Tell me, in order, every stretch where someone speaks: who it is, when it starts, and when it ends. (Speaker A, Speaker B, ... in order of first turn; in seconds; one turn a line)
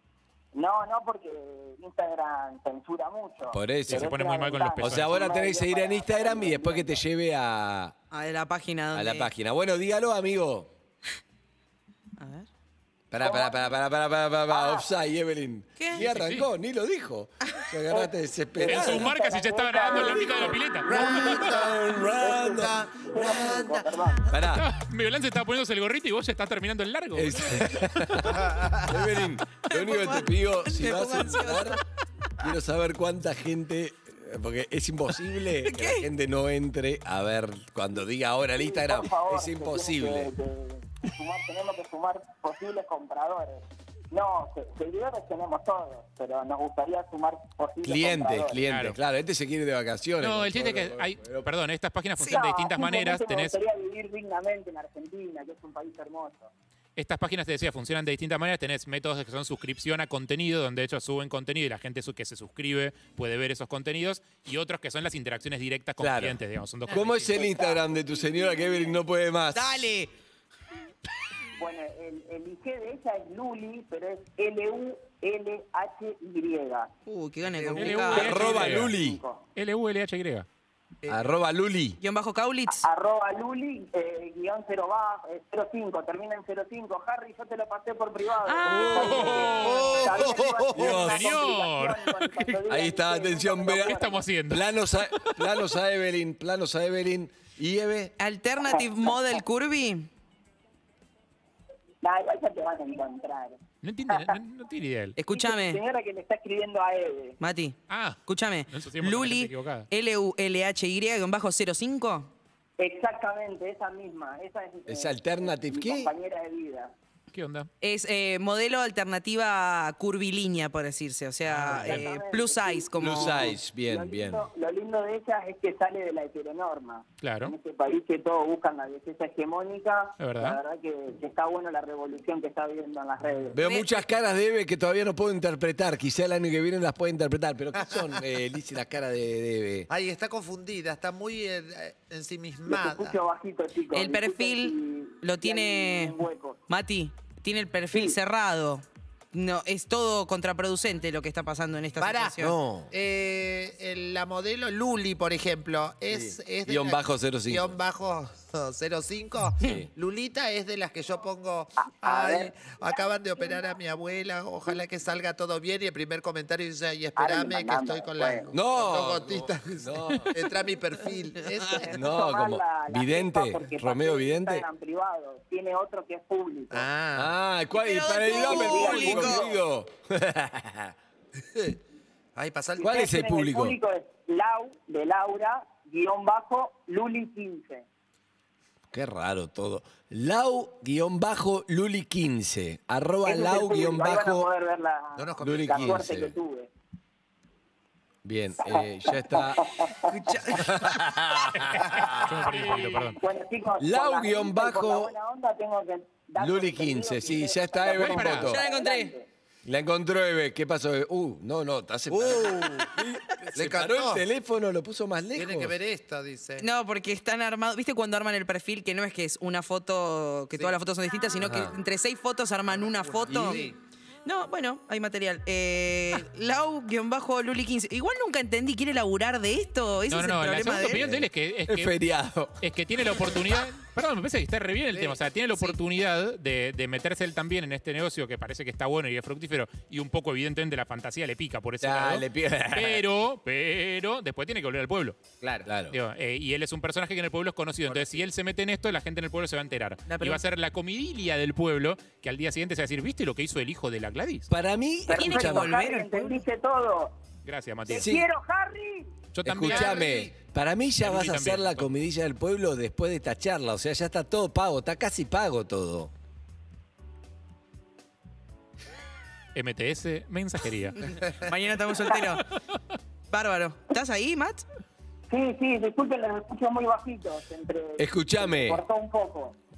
Speaker A: 0.5-7.0
Speaker B: 3.5-4.1
Speaker C: 3.9-5.3
Speaker B: 4.8-7.9
Speaker D: 8.1-9.3
Speaker B: 8.9-10.7
Speaker D: 12.2-12.5
Speaker B: 13.1-19.1
Speaker A: 13.2-13.7
Speaker A: 14.5-14.9
Speaker D: 15.8-16.0
Speaker C: 16.0-16.5
Speaker A: 17.9-21.1
Speaker C: 18.6-21.1
Speaker E: 20.9-23.9
Speaker B: 20.9-22.8
Speaker A: 22.0-24.3
Speaker B: 24.3-24.7
Speaker C: 24.5-27.8
Speaker B: 27.1-31.8
Speaker D: 29.7-31.8
Speaker B: 32.4-40.3
Speaker D: 35.6-36.0
Speaker A: 38.5-48.6
Speaker B: 47.8-51.5
Speaker C: 48.6-49.0
Speaker C: 50.2-53.5
Speaker D: 52.2-52.4
Speaker A: 52.2-56.5
Speaker C: 57.0-67.5
Speaker B: 66.0-69.9
Speaker A: 67.3-69.0
Speaker D: 69.5-70.1
Speaker A: 71.6-76.9
Speaker D: 77.1-78.5
Speaker C: 77.8-78.9
Speaker A: 77.8-79.4
Speaker B: 78.1-79.2
Speaker C: 79.5-80.5
Speaker B: 81.1-82.0
Speaker D: 82.0-82.8
Speaker A: 82.7-94.3
Speaker D: 88.4-89.5
Speaker C: 88.8-90.3
Speaker E: 89.5-91.0
Speaker B: 90.7-91.4
Speaker C: 90.8-92.6
Speaker B: 92.7-98.1
Speaker C: 93.8-95.4
Speaker D: 98.2-100.1
Speaker A: 102.0-103.6
Speaker C: 103.8-105.2
Speaker A: 104.1-104.4
Speaker D: 105.2-105.8
Speaker A: 105.3-107.4
Speaker D: 107.4-112.3
Speaker C: 107.9-109.9
Speaker A: 112.8-116.9
Speaker B: 114.9-116.1
Speaker C: 117.3-117.7
Speaker D: 117.8-123.6
Speaker C: 121.5-122.0
Speaker A: 121.7-133.8
Speaker B: 123.0-124.4
Speaker C: 127.2-127.5
Speaker C: 130.2-130.6
Speaker B: 133.5-139.9
Speaker E: 139.9-143.2
Speaker A: 142.7-146.6
Speaker D: 143.9-146.2
Speaker D: 146.7-152.6
Speaker A: 147.9-148.2
Speaker E: 152.0-152.4
Speaker B: 152.4-152.9
Speaker E: 152.9-172.0
Speaker B: 156.1-157.8
Speaker B: 159.6-159.9
Speaker A: 161.8-162.5
Speaker A: 167.2-168.5
Speaker B: 168.5-170.4
Speaker B: 171.9-174.7
Speaker A: 171.9-176.8
Speaker E: 176.7-177.4
Speaker B: 177.1-180.9
Speaker D: 177.7-179.6
Speaker A: 178.3-179.6
Speaker E: 182.3-183.0
Speaker A: 182.8-187.8
Speaker B: 182.8-183.8
Speaker B: 188.9-194.5
Speaker A: 193.2-196.7
Speaker E: 195.2-196.1
Speaker B: 195.4-196.3
Speaker B: 198.2-199.8
Speaker A: 198.6-200.1
Speaker D: 200.0-200.9
Speaker B: 200.6-201.8
Speaker C: 201.7-203.2
Speaker E: 202.1-202.4
Speaker A: 202.5-209.3
Speaker B: 203.8-205.1
Speaker B: 206.4-208.6
Speaker C: 207.9-208.5
Speaker D: 208.3-209.1
Speaker B: 209.6-215.8
Speaker E: 212.1-212.9
Speaker E: 213.5-214.2
Speaker E: 215.3-216.7
Speaker D: 216.6-223.7
Speaker B: 221.4-221.7
Speaker E: 222.7-223.8
Speaker B: 223.3-223.7
Speaker D: 224.2-231.0
Speaker C: 230.1-231.9
Speaker B: 230.9-232.6
Speaker C: 232.6-245.2
Speaker E: 234.9-235.8
Speaker B: 241.8-243.0
Speaker E: 245.4-245.7
Speaker B: 245.6-246.0
Speaker C: 245.9-254.5
Speaker E: 247.8-248.3
Speaker D: 250.1-250.4
Speaker B: 254.5-255.7
Speaker A: 255.1-257.1
Speaker D: 255.2-256.4
Speaker C: 257.4-258.2
Speaker A: 257.9-259.1
Speaker C: 259.3-260.1
Speaker B: 259.4-266.1
Speaker E: 259.6-260.3
Speaker C: 261.0-261.9
Speaker C: 269.5-271.2
Speaker D: 271.1-272.4
Speaker D: 273.3-274.6
Speaker A: 275.3-279.6
Speaker B: 278.0-278.8